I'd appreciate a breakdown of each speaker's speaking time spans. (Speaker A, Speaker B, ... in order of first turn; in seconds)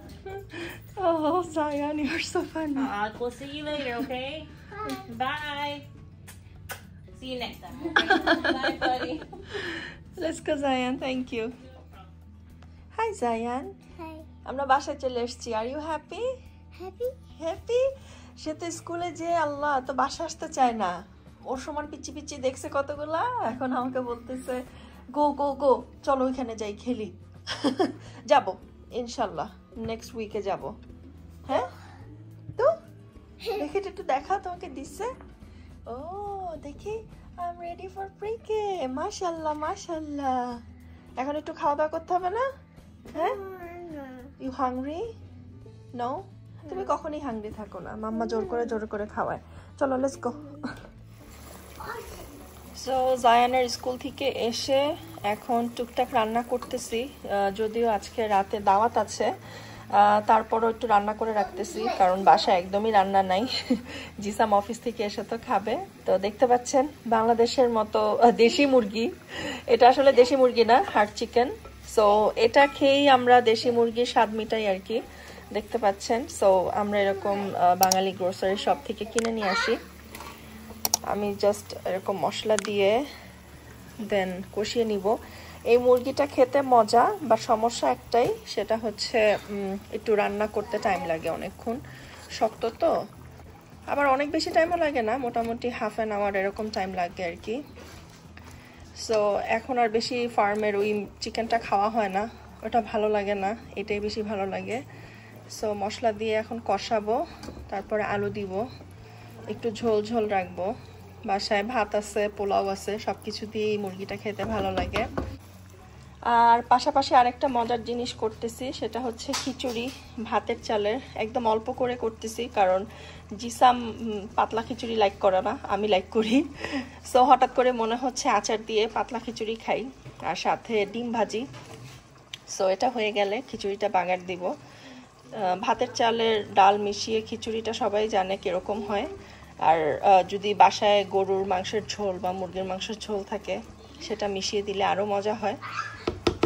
Speaker A: 0.2-2.9, 8.0-8.9, 9.5-11.5, 12.9-13.7, 14.4-16.2, 17.4-17.8, 18.4-20.9, 21.5-24.6, 25.1-30.7, 33.5-35.1, 35.9-40.6, 41.2-42.4, 43.1-43.4, 44.4-45.0, 45.9-50.6, 52.8-59.3, 59.9-75.0, 75.5-79.8, 81.1-83.0, 84.0-85.1, 85.7-91.8, 92.4-92.9, 93.9-97.6, 99.0-104.8, 105.5-107.2, 107.7-108.6, 109.5-110.7, 111.3-115.0, 116.3-122.8, 123.4-123.8, 124.3-126.4, 127.1-131.4, 132.5-134.5, 135.3-139.1, 139.6-145.6
Speaker B: 2.8-5.8, 7.1-9.7
Speaker C: 4.7-5.1, 14.0-14.3, 16.7-17.1, 43.1-44.3, 48.3-48.7, 51.8-52.3, 61.6-62.3